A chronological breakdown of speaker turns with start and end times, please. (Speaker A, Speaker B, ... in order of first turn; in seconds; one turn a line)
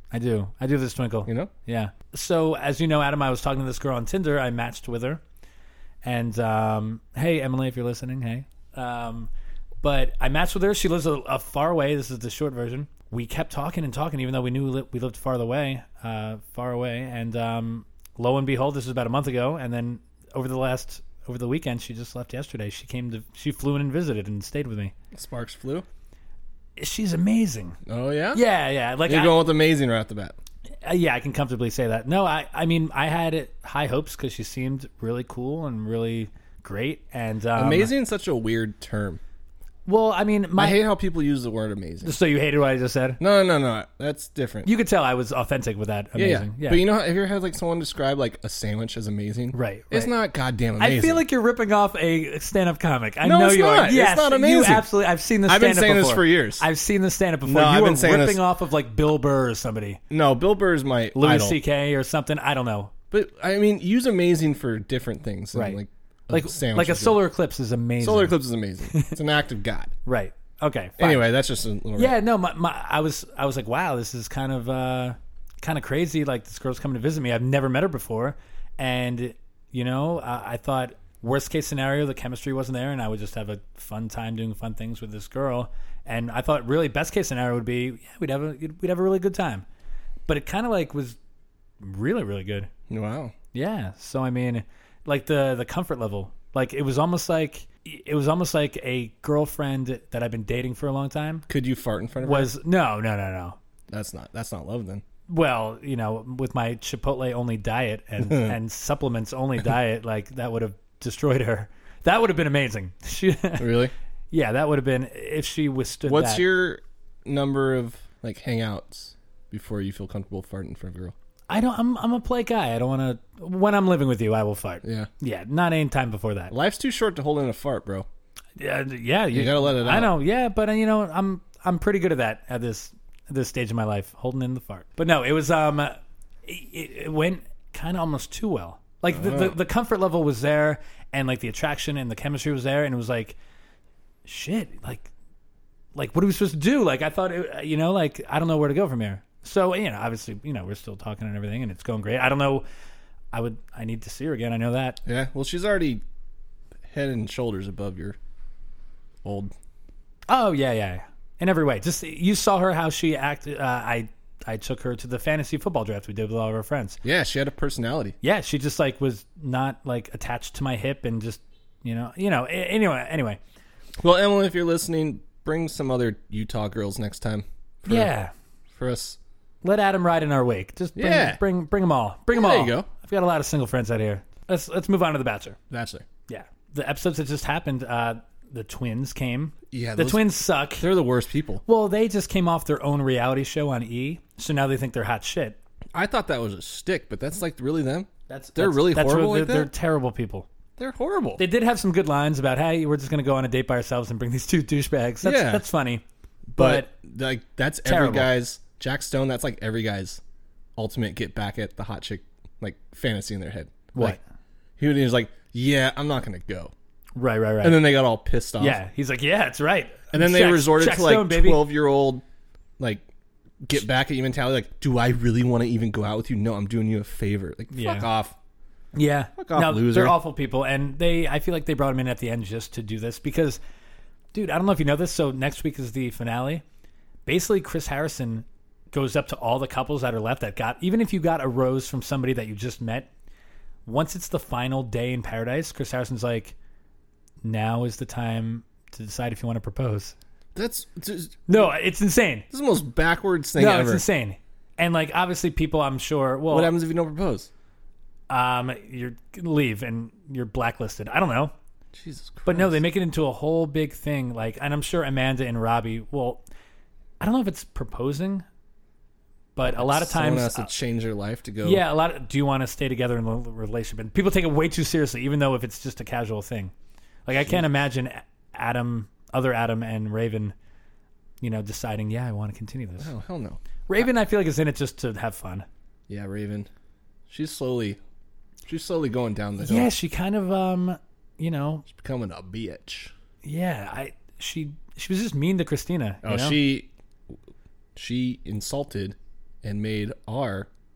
Speaker A: 0.1-5.2
Speaker B: 1.3-1.5
Speaker A: 6.0-9.3
Speaker A: 9.8-24.9
Speaker B: 25.1-25.9
Speaker A: 26.8-27.8
Speaker B: 27.9-28.4
Speaker A: 28.3-29.4
Speaker B: 29.1-30.4
Speaker A: 30.8-37.9
Speaker B: 37.6-39.2
Speaker A: 39.9-40.8
Speaker B: 40.6-42.1
Speaker A: 42.0-43.2
Speaker B: 43.2-44.7
Speaker A: 44.6-46.8
Speaker B: 46.2-51.2
Speaker A: 49.5-50.1
Speaker A: 50.8-60.0
Speaker B: 53.2-54.9
Speaker B: 55.5-56.6
Speaker B: 57.5-58.4
Speaker B: 60.1-61.6
Speaker A: 61.1-62.9
Speaker B: 63.1-67.2
Speaker A: 65.5-65.8
Speaker A: 66.3-68.3
Speaker B: 68.0-69.9
Speaker A: 70.1-71.3
Speaker B: 71.0-72.2
Speaker A: 72.0-89.7
Speaker A: 90.3-91.2
Speaker A: 91.8-92.7
Speaker B: 92.9-93.3
Speaker A: 93.5-101.5
Speaker B: 101.5-102.5
Speaker A: 102.2-103.6
Speaker B: 103.9-105.0
Speaker A: 105.3-116.5
Speaker B: 108.2-108.5
Speaker B: 113.6-113.9
Speaker B: 116.1-121.2
Speaker A: 121.5-126.5
Speaker B: 124.8-125.1
Speaker B: 126.5-128.1
Speaker A: 128.6-143.4
Speaker B: 129.3-130.2
Speaker B: 139.1-139.6
Speaker A: 144.2-145.1
Speaker A: 145.9-152.7
Speaker A: 153.3-155.0
Speaker B: 155.1-156.0
Speaker B: 156.9-158.2
Speaker B: 159.2-159.5
Speaker A: 160.3-167.0
Speaker B: 167.0-168.2
Speaker A: 168.2-173.4
Speaker B: 174.0-178.1
Speaker A: 177.9-178.3
Speaker B: 178.7-179.2
Speaker A: 179.6-185.6
Speaker B: 181.0-181.4
Speaker B: 182.3-182.9
Speaker B: 185.7-186.0
Speaker A: 186.3-190.8
Speaker B: 189.7-190.2
Speaker B: 190.8-191.6
Speaker A: 191.7-195.6
Speaker B: 195.9-199.7
Speaker A: 198.3-200.5
Speaker B: 200.8-201.4
Speaker A: 201.4-206.0
Speaker B: 205.2-205.6
Speaker B: 206.6-210.2
Speaker A: 206.6-206.9
Speaker A: 207.8-208.3
Speaker B: 210.8-214.2
Speaker A: 213.9-214.2
Speaker B: 214.8-216.7
Speaker A: 217.2-217.8
Speaker B: 217.6-218.8
Speaker A: 218.6-221.6
Speaker B: 220.1-222.2
Speaker B: 222.8-223.0
Speaker B: 223.6-228.4
Speaker A: 227.7-228.1
Speaker A: 228.9-233.6
Speaker B: 229.4-230.2
Speaker A: 234.3-236.6
Speaker A: 237.3-243.1
Speaker A: 243.9-246.6
Speaker A: 247.4-250.2
Speaker B: 250.6-251.7
Speaker A: 251.5-252.5
Speaker B: 252.5-254.0
Speaker A: 253.6-256.7
Speaker B: 256.5-257.5
Speaker A: 258.3-261.5
Speaker B: 261.9-262.8
Speaker A: 262.5-266.4
Speaker A: 267.2-268.4
Speaker A: 269.6-270.7
Speaker B: 269.8-271.8
Speaker A: 271.6-276.7
Speaker A: 277.3-280.6
Speaker A: 281.4-283.1
Speaker B: 283.0-283.6
Speaker A: 283.9-285.7
Speaker B: 286.1-286.7
Speaker B: 287.3-288.0
Speaker B: 288.7-289.9
Speaker A: 289.6-291.9
Speaker B: 291.9-293.1
Speaker A: 293.4-296.6
Speaker B: 296.2-296.9
Speaker B: 298.0-300.7